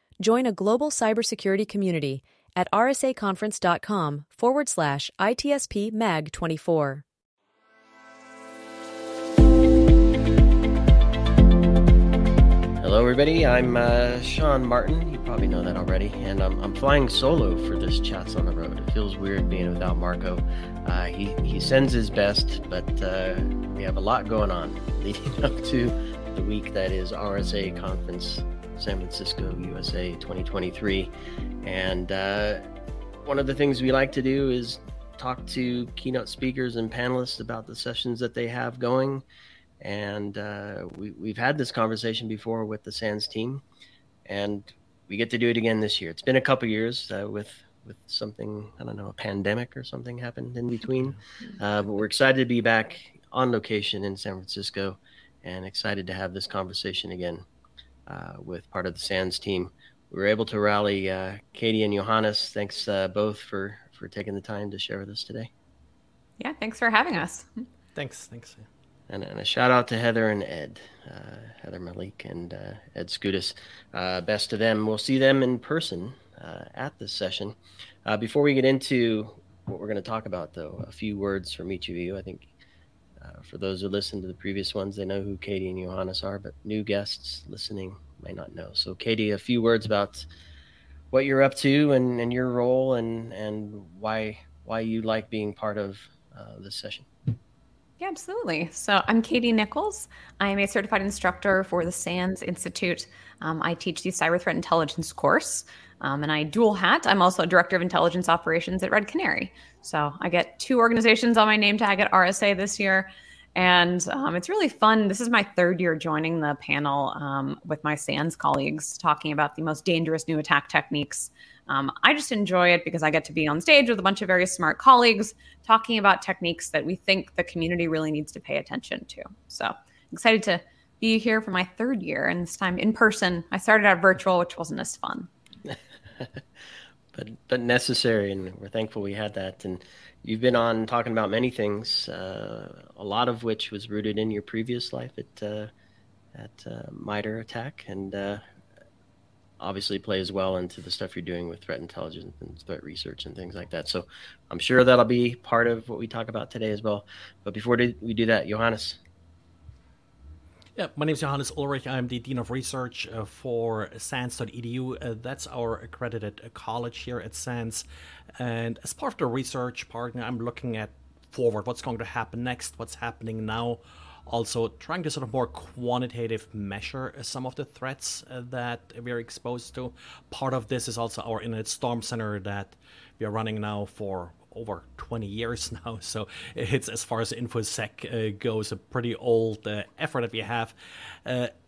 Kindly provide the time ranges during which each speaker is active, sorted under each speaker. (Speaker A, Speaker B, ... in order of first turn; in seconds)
Speaker A: 0.2-7.0
Speaker B: 12.8-31.1, 31.6-32.6, 33.2-39.2, 39.8-43.6, 44.2-57.5, 58.1-65.5, 69.1-82.5, 83.2-90.3, 91.1-97.1, 137.1-145.7, 146.3-148.4, 149.6-159.0
Speaker C: 66.4-67.7, 98.0-135.3
Speaker D: 67.9-68.7, 160.8-167.8, 168.4-191.5